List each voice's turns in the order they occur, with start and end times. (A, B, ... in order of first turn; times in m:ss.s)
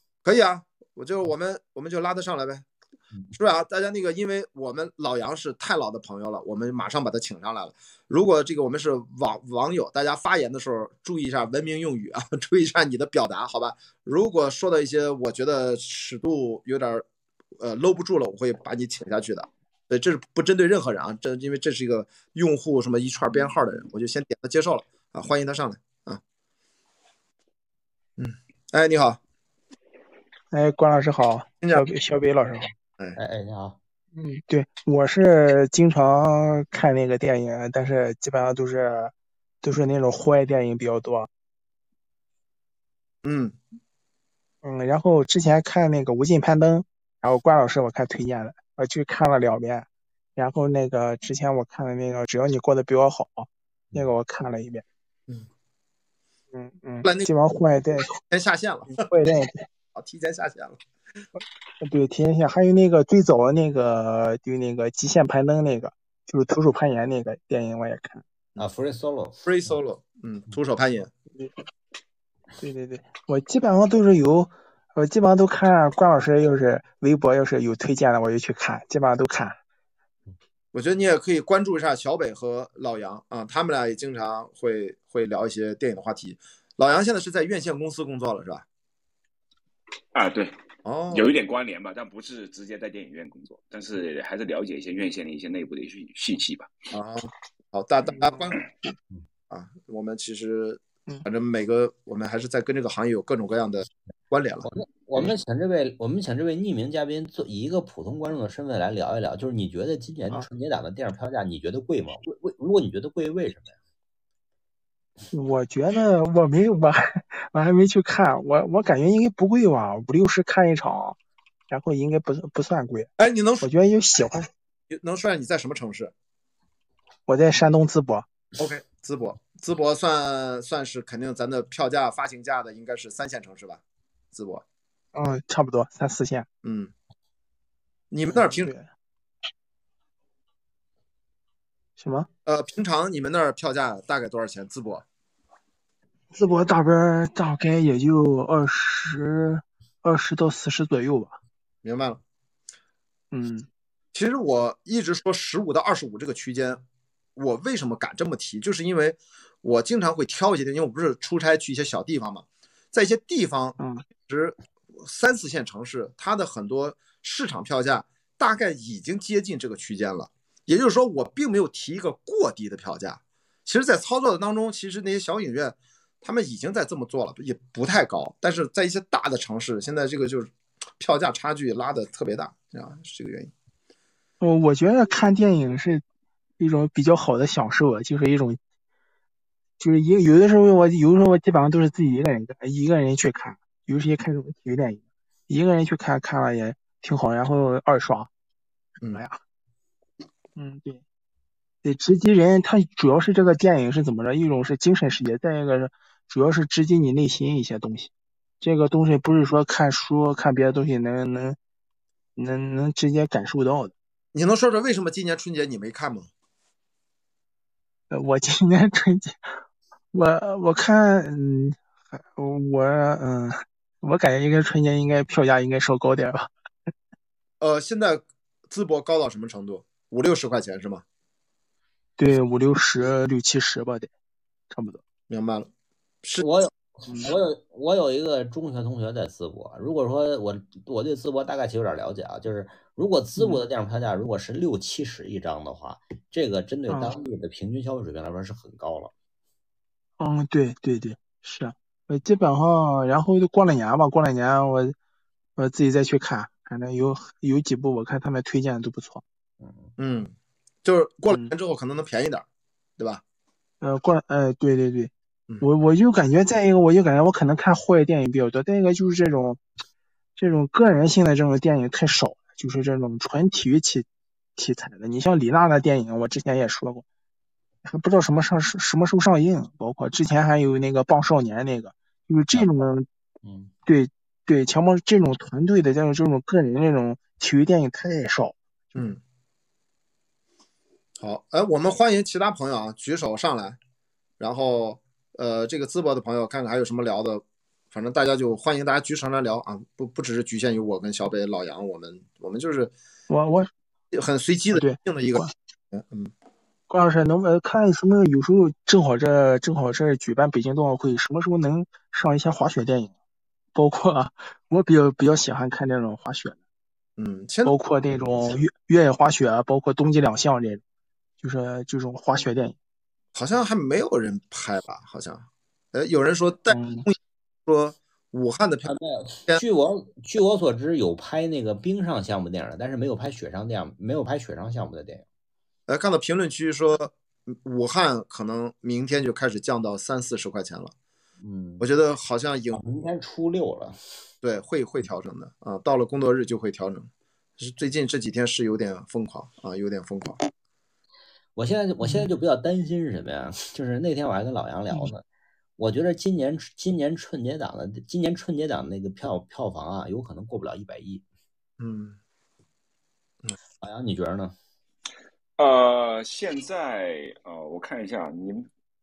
0:00.2-0:02.6 A
0:03.3-0:17.0 A
0:17.6-0:26.2 A
0:28.2-0:29.2 A
0:30.5-0:32.7 B
0:33.2-0:33.8 C
0:34.1-0:39.1 B
0:39.6-0:41.3 B
0:43.2-0:43.6 A
0:44.6-0:54.8 B
0:56.5-0:58.1 B
0:57.0-0:57.3 A
0:58.3-0:59.0 A
0:58.9-0:59.6 B
0:59.9-1:00.8 A
1:01.8-1:08.2 B
1:08.6-1:09.4 C
1:09.4-1:11.1 A
1:12.6-1:19.6 B
1:20.7-1:28.6 A
1:30.1-1:30.6 D
1:30.8-1:31.3 A
1:31.1-1:36.7 D
1:36.9-1:38.6 A
1:39.5-1:45.2 A
1:44.7-1:53.8 C
1:55.3-2:01.2 B
2:01.7-2:03.1 B
2:03.2-2:03.6 A
2:03.6-2:04.5 B
2:04.9-2:06.1 A
2:07.3-2:08.2 B
2:08.6-2:13.8 A
2:14.3-2:14.6 A
2:15.1-2:16.5 B
2:16.6-2:16.9 A
2:18.1-2:18.7 A
2:18.3-2:18.9 B
2:22.0-2:22.3 B
2:22.4-2:25.0 A
2:26.3-2:31.4 B
2:31.8-2:32.2 A
2:33.3-2:33.7 B
2:34.1-2:36.8 A
2:37.4-3:03.5 A
2:43.8-2:44.0 B
3:04.4-3:06.0 B
3:06.6-3:08.6 B
3:09.8-3:18.3 B
3:19.1-3:19.4 B
3:20.6-3:21.0 B
3:21.8-3:28.1 B
3:28.6-3:31.6 B
3:32.4-3:33.9 B
3:34.3-3:36.3 A
3:38.1-3:39.4 B
3:40.1-3:41.8 B
3:42.4-3:46.5 B
3:47.6-3:51.0 A
3:52.2-3:54.1 B
3:54.7-3:55.0 B
3:55.3-3:55.7 A
3:56.4-4:09.1 C
3:57.1-3:57.3 B
4:03.4-4:03.6 B
4:06.9-4:07.1 B
4:10.2-4:14.9 B
4:15.6-4:19.2 B
4:19.6-4:19.9 C
4:20.0-4:22.4 A
4:23.8-4:29.6 B
4:30.4-4:34.0 B
4:34.6-4:37.0 B
4:37.8-4:43.1 B
4:43.4-4:43.7 C
4:43.8-4:48.6 B
4:48.9-4:49.2 A
4:51.2-4:53.8 A
4:54.4-5:02.9 A
5:03.3-5:03.7 B
5:04.1-5:06.3 A
5:04.7-5:05.5 B
5:06.9-5:13.1 B
5:13.7-5:16.6 B
5:17.2-5:17.7 A
5:17.6-5:20.8 B
5:21.4-5:22.8 B
5:23.3-5:28.9 A
5:26.7-5:27.0 B
5:28.9-5:35.2 C
5:35.9-5:40.9 A
5:41.4-5:41.9 C
5:41.8-5:42.8 A
5:42.7-5:44.0 C
5:44.4-5:50.4 A
5:51.5-5:55.2 C
5:55.8-6:01.2 C
6:01.8-6:02.2 A
6:03.8-6:04.5 C
6:05.6-6:08.7 D